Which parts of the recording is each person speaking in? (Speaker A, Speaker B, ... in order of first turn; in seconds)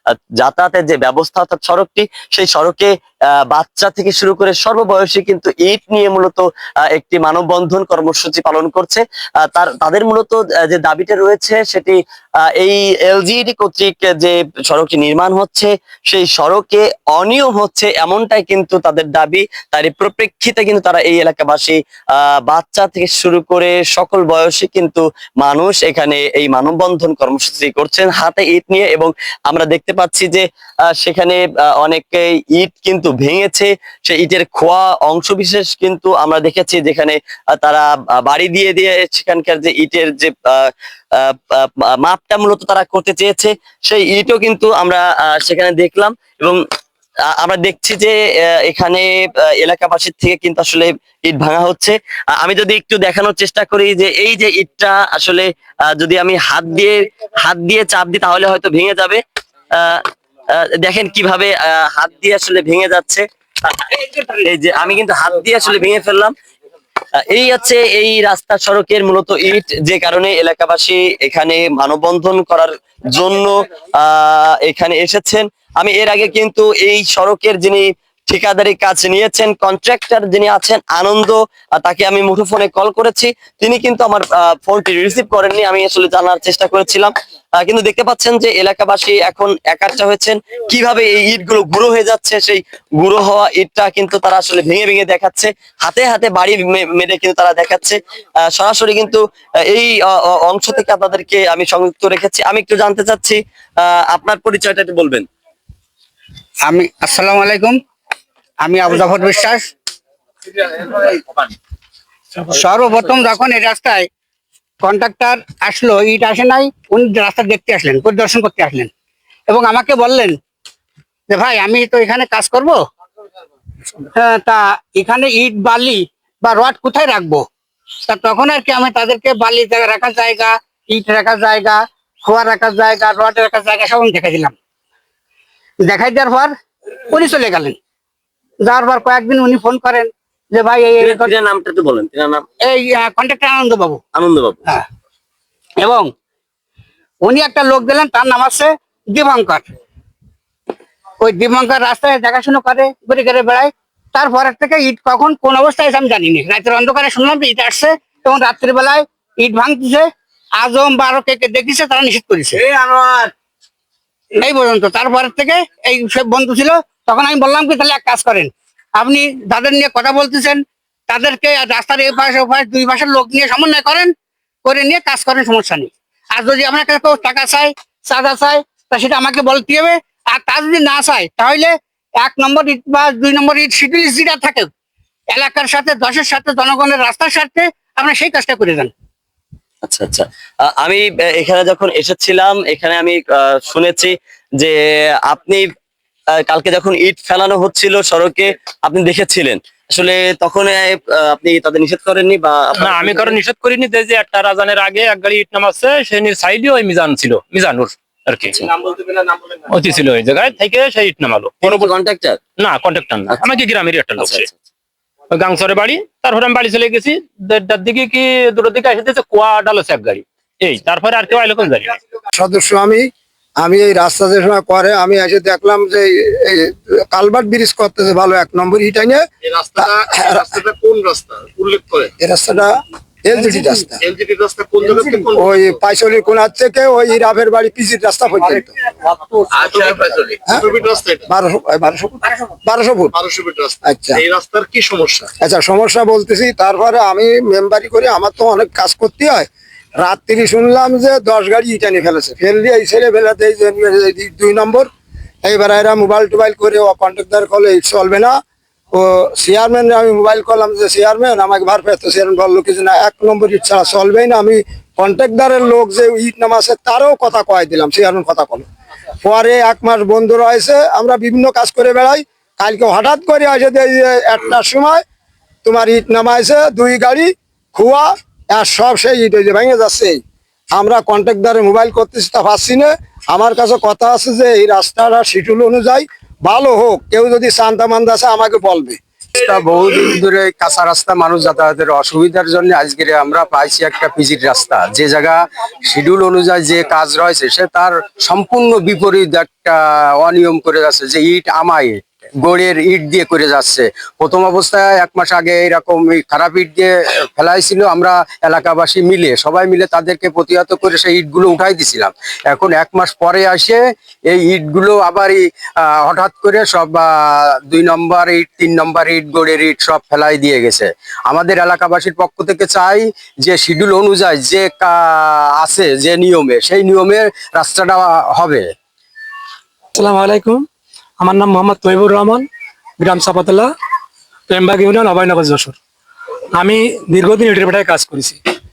Speaker A: 0.4-2.9, 3.5-12.0, 12.5-30.4, 30.9-40.6, 41.2-46.6, 47.3-59.2, 59.8-60.0, 60.6-66.3, 67.2-98.0, 98.5-105.2, 141.0-142.4, 144.1-144.6, 189.8-194.8, 195.3-195.7, 196.4-203.4, 211.6-212.4, 214.2-214.5
Speaker B: 106.7-107.8, 108.6-109.7, 112.6-114.1, 114.8-118.9, 119.5-120.4, 121.3-122.8, 124.2-127.5, 128.1-134.5, 135.8-136.5, 137.1-137.8, 138.6-141.3, 142.6-144.0, 145.8-146.1, 147.2-149.7, 151.2-160.1, 160.6-162.6, 164.4-174.1, 174.6-184.7, 185.3-188.9
Speaker C: 202.8-211.9, 212.6-214.5, 215.3-222.0
Speaker D: 222.3-229.2, 229.8-230.6, 232.2-234.0, 235.2-238.7, 241.3-243.2, 243.8-244.2, 245.4-249.5, 250.0-254.9, 255.4-258.4, 258.9-268.7, 269.2-275.0, 275.6-280.2, 280.7-289.0
Speaker E: 229.5-232.1, 234.0-235.6, 239.5-241.2, 243.2-245.3
Speaker F: 289.4-328.6
Speaker G: 329.9-330.6, 331.2-332.5, 333.0-333.7, 334.5-335.8, 336.6-338.4